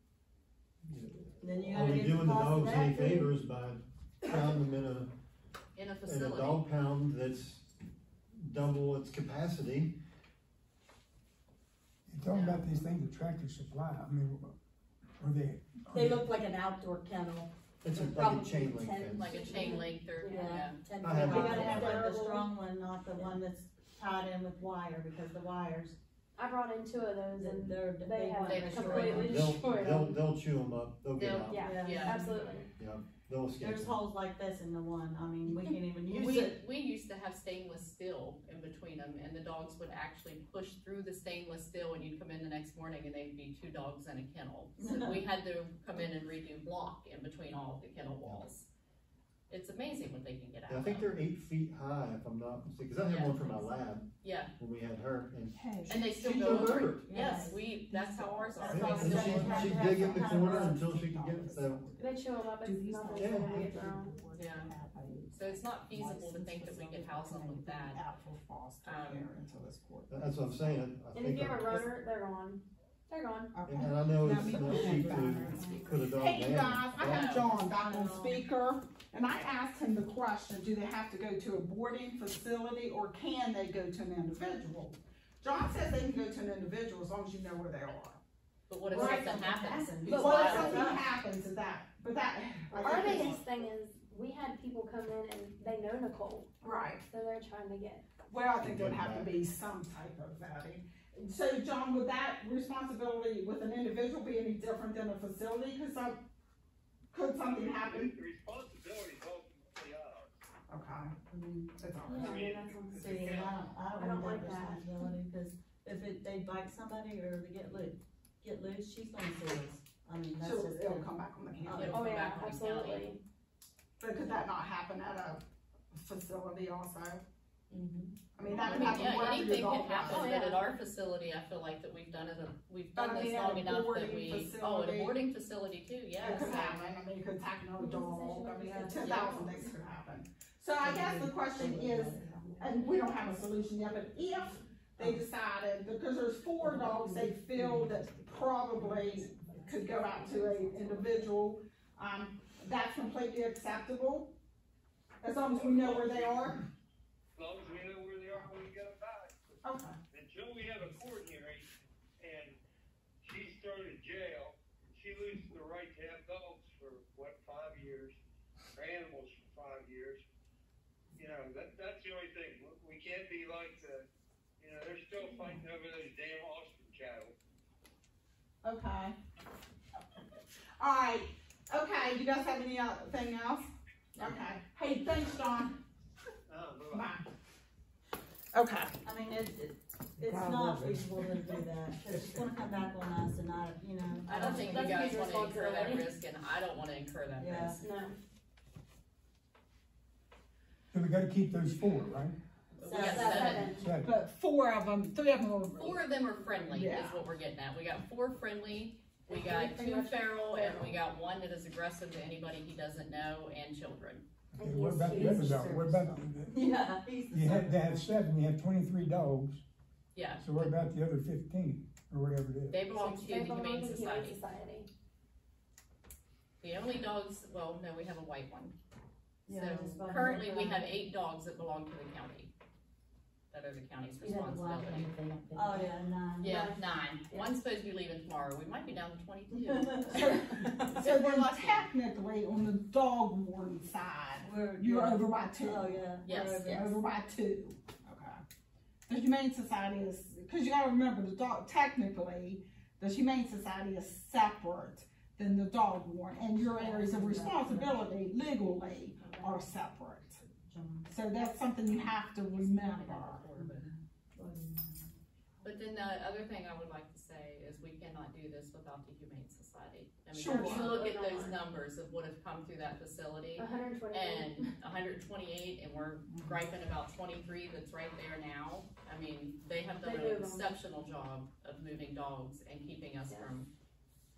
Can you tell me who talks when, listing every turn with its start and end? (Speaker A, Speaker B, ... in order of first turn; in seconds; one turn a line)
Speaker A: 0.8-5.1
Speaker B: 1.4-3.3
Speaker C: 5.8-6.6
Speaker A: 6.0-7.7
Speaker A: 8.3-10.0
Speaker D: 12.1-14.6
Speaker C: 12.3-12.8
Speaker D: 15.2-16.3
Speaker B: 15.9-26.0
Speaker A: 17.8-19.4
Speaker C: 19.1-20.8
Speaker E: 19.3-20.6
Speaker A: 21.0-22.1
Speaker E: 21.3-22.4
Speaker E: 26.4-30.2
Speaker B: 27.3-29.4
Speaker C: 28.4-29.4
Speaker A: 29.2-31.7
Speaker C: 31.2-32.3
Speaker E: 31.5-32.7
Speaker B: 31.6-32.3
Speaker A: 32.8-34.0
Speaker B: 33.6-36.6
Speaker C: 35.7-48.7
Speaker B: 44.8-45.2
Speaker C: 49.5-51.1
Speaker A: 50.7-57.1
Speaker C: 53.0-54.5
Speaker F: 55.5-70.8
Speaker C: 55.9-59.6
Speaker B: 57.1-57.6
Speaker B: 58.6-60.9
Speaker A: 58.6-61.9
Speaker E: 62.0-64.2
Speaker A: 63.2-63.7
Speaker C: 64.4-64.7
Speaker C: 65.3-68.0
Speaker C: 68.8-69.3
Speaker A: 70.1-71.9
Speaker E: 71.1-73.5
Speaker F: 73.5-88.2
Speaker A: 73.7-77.4
Speaker B: 74.7-75.8
Speaker C: 77.0-77.7
Speaker B: 77.8-78.3
Speaker C: 88.7-90.9
Speaker F: 88.9-89.4
Speaker B: 88.9-91.0
Speaker F: 90.1-93.3
Speaker E: 90.2-90.9
Speaker E: 92.7-98.1
Speaker F: 96.6-97.0
Speaker F: 98.3-106.2
Speaker A: 98.6-99.3
Speaker F: 107.1-108.2
Speaker G: 107.4-110.4
Speaker F: 110.7-111.1
Speaker B: 111.3-111.7
Speaker F: 111.8-112.4
Speaker E: 112.1-113.4
Speaker B: 112.9-121.1
Speaker G: 113.2-113.6
Speaker E: 113.9-114.9
Speaker F: 120.4-121.8
Speaker B: 121.6-122.0
Speaker C: 121.7-123.1
Speaker E: 121.8-123.2
Speaker F: 124.0-127.2
Speaker C: 127.7-136.8
Speaker F: 128.3-130.3
Speaker E: 130.1-130.6
Speaker F: 132.9-135.2
Speaker F: 136.2-154.3
Speaker E: 137.8-139.7
Speaker B: 140.8-142.5
Speaker B: 146.7-146.9
Speaker F: 155.2-156.6
Speaker G: 155.6-156.4
Speaker G: 157.4-159.3
Speaker F: 159.6-159.9
Speaker G: 160.1-161.7
Speaker G: 162.2-162.6
Speaker G: 163.2-168.2
Speaker G: 168.8-170.2
Speaker G: 171.2-174.1
Speaker G: 174.6-177.3
Speaker F: 175.3-175.6
Speaker F: 178.6-179.2
Speaker F: 180.8-185.8
Speaker G: 186.5-187.1
Speaker F: 186.9-187.3
Speaker F: 188.5-188.9
Speaker B: 189.0-195.2
Speaker F: 190.2-192.5
Speaker C: 194.3-197.8
Speaker E: 194.4-196.1
Speaker B: 197.4-197.8
Speaker E: 197.8-198.2
Speaker D: 200.9-202.4
Speaker C: 202.8-203.8
Speaker B: 202.8-203.7
Speaker E: 203.1-203.9
Speaker D: 203.6-204.1
Speaker F: 204.0-206.0
Speaker C: 205.7-214.2
Speaker F: 206.7-207.2
Speaker E: 209.3-210.9
Speaker D: 214.5-216.6
Speaker E: 214.6-216.2
Speaker B: 216.5-218.1
Speaker D: 217.3-219.6
Speaker C: 220.1-220.8
Speaker D: 220.4-222.9
Speaker C: 222.7-224.4
Speaker E: 222.9-224.9
Speaker C: 226.6-228.8
Speaker B: 229.5-230.9
Speaker C: 229.5-232.5
Speaker C: 233.5-235.1
Speaker E: 234.4-235.8
Speaker B: 235.5-236.7
Speaker C: 236.4-241.9
Speaker F: 240.1-246.0
Speaker B: 244.4-247.0
Speaker C: 246.2-246.7
Speaker F: 246.6-248.4
Speaker F: 249.1-260.4
Speaker B: 256.6-257.9
Speaker C: 259.2-259.6
Speaker B: 260.7-261.1
Speaker F: 261.1-263.4
Speaker C: 261.8-263.9
Speaker B: 263.6-263.8
Speaker B: 264.4-265.0
Speaker C: 265.6-283.7
Speaker F: 270.3-271.0
Speaker E: 270.5-271.6
Speaker E: 273.6-274.7
Speaker F: 276.3-276.6
Speaker E: 280.0-280.7